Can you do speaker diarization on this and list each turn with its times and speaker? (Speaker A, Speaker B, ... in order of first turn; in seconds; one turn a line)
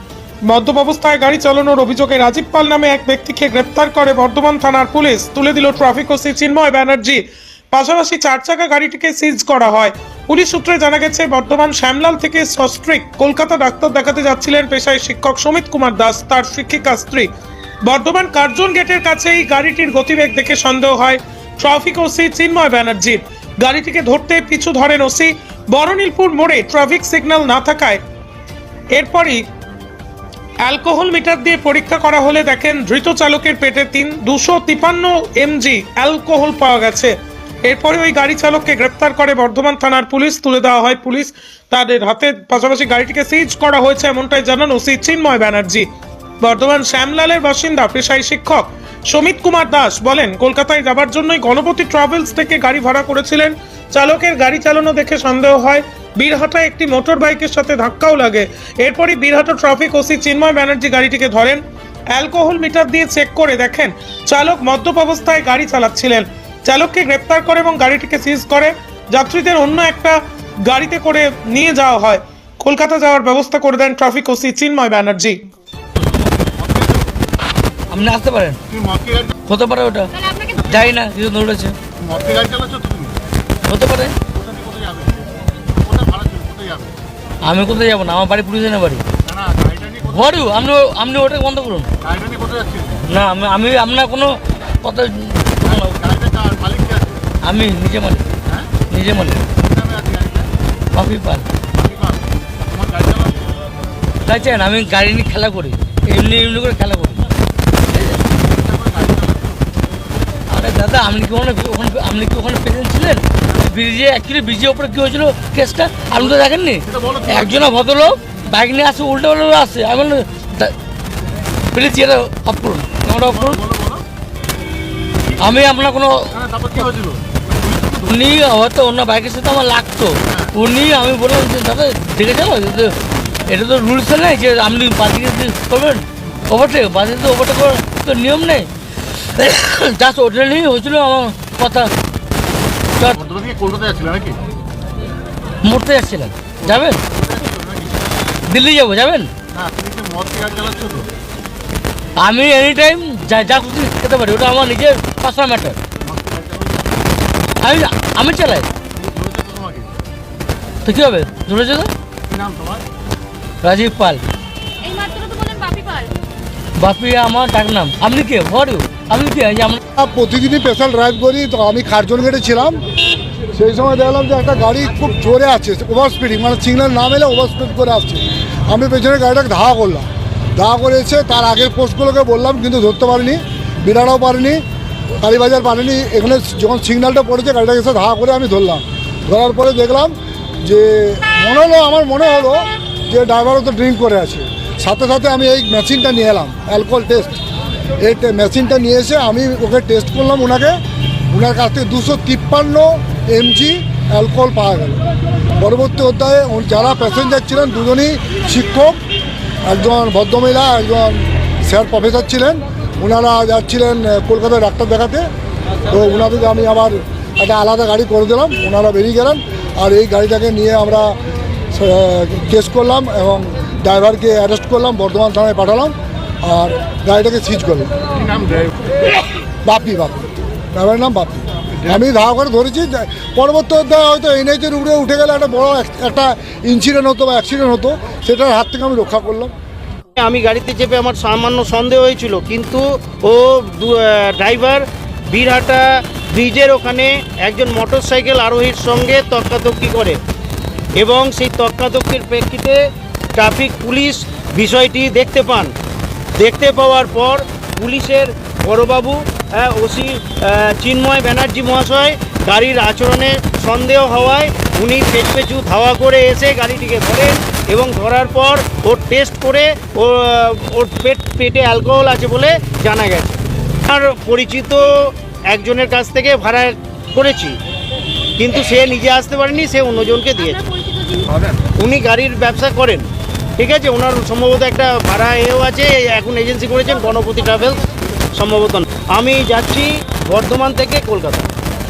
Speaker A: 0.5-17.3
Speaker A: 17.8-28.0
Speaker A: 28.9-29.4
Speaker A: 30.6-45.9
Speaker A: 46.4-75.4
Speaker B: 76.0-77.1
Speaker C: 77.9-78.6
Speaker B: 78.7-79.3
Speaker C: 79.5-80.1
Speaker D: 80.1-80.6
Speaker C: 80.7-81.8
Speaker B: 82.0-83.2
Speaker C: 83.7-84.1
Speaker B: 84.3-86.9
Speaker C: 87.4-89.0
Speaker B: 89.2-90.5
Speaker C: 90.1-91.9
Speaker B: 92.0-93.0
Speaker C: 93.1-95.9
Speaker B: 95.6-97.2
Speaker C: 97.4-98.2
Speaker B: 98.5-98.7
Speaker C: 98.9-99.4
Speaker B: 99.5-100.5
Speaker C: 100.9-101.5
Speaker B: 101.7-103.5
Speaker C: 104.2-107.2
Speaker B: 108.2-109.7
Speaker C: 110.5-120.7
Speaker B: 116.1-117.7
Speaker C: 121.7-123.6
Speaker B: 123.1-124.0
Speaker B: 125.2-125.7
Speaker C: 125.4-126.3
Speaker B: 126.3-128.5
Speaker C: 128.0-132.9
Speaker B: 130.2-130.5
Speaker C: 133.5-138.7
Speaker C: 139.2-141.9
Speaker B: 143.1-144.4
Speaker C: 145.6-147.0
Speaker B: 146.6-148.2
Speaker C: 148.5-149.3
Speaker B: 149.5-151.1
Speaker C: 152.2-155.8
Speaker B: 156.0-157.0
Speaker C: 157.6-158.7
Speaker B: 158.9-159.9
Speaker C: 160.8-161.9
Speaker B: 162.3-162.8
Speaker C: 163.6-164.2
Speaker D: 164.8-166.1
Speaker C: 166.8-169.8
Speaker E: 169.9-172.8
Speaker E: 173.5-184.6
Speaker E: 185.2-197.3
Speaker E: 198.0-200.8
Speaker E: 201.3-205.0
Speaker E: 205.6-209.0
Speaker E: 209.7-215.3
Speaker E: 215.8-221.2
Speaker E: 221.7-227.9
Speaker B: 228.1-228.9
Speaker E: 229.6-239.5
Speaker F: 240.2-250.2
Speaker F: 251.0-252.8
Speaker F: 253.3-255.7
Speaker F: 256.4-277.6
Speaker F: 278.4-280.6
Speaker D: 280.8-281.3
Speaker F: 281.8-291.5